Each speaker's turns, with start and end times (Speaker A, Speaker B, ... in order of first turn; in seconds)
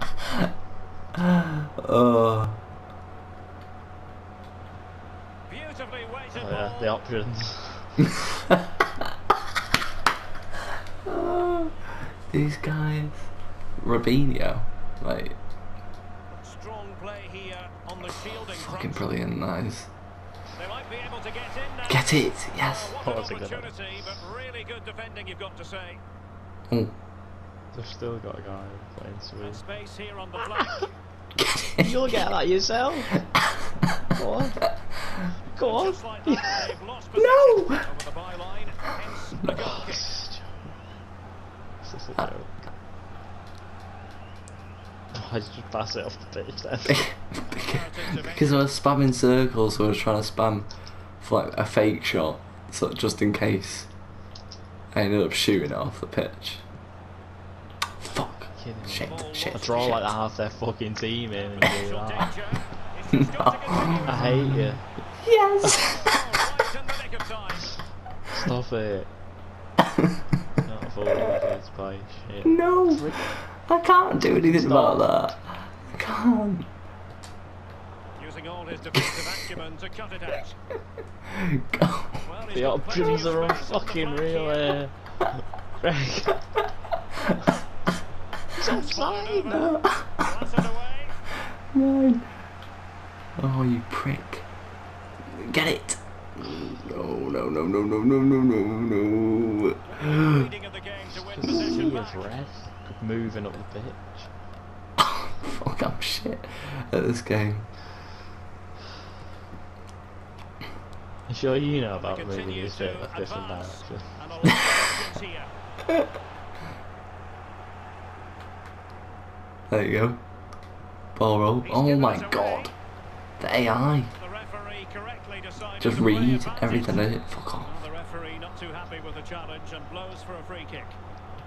Speaker A: 1.2-2.6, 11.1-15.4, 18.4-19.9, 21.9-22.9, 26.7-26.9, 31.4-31.9, 37.2-37.9, 39.4-39.8, 46.9-53.9, 54.9-56.6, 58.0-60.1, 63.1-66.3, 72.5-76.7, 81.3-82.3, 89.5-90.5, 91.7-92.3, 93.4-94.5, 95.3-100.5, 101.5-101.8, 105.0-107.7, 119.7-120.2, 121.2-122.7, 123.4-124.1, 125.8-127.7
Speaker B: 5.5-6.8, 16.3-19.0, 20.6-22.1, 22.7-26.0, 29.4-30.9, 35.6-40.0, 47.5-48.6, 59.0-60.0, 61.7-64.2, 65.8-67.7, 78.2-80.6, 82.3-84.8, 88.7-89.7, 90.2-91.2, 99.8-102.2, 112.0-115.5, 121.7-122.7, 124.2-127.0, 127.7-131.0
Speaker C: 6.3-8.0, 23.0-23.7, 27.7-29.6, 31.8-33.2, 34.1-34.6, 35.5-36.7, 39.6-40.7, 41.8-42.7, 45.1-47.0, 58.5-62.3, 64.1-64.9, 68.3-69.1, 70.6-73.2, 74.4-75.1, 82.5-84.9, 85.8-86.4, 88.6-89.7, 101.1-104.3, 111.3-114.5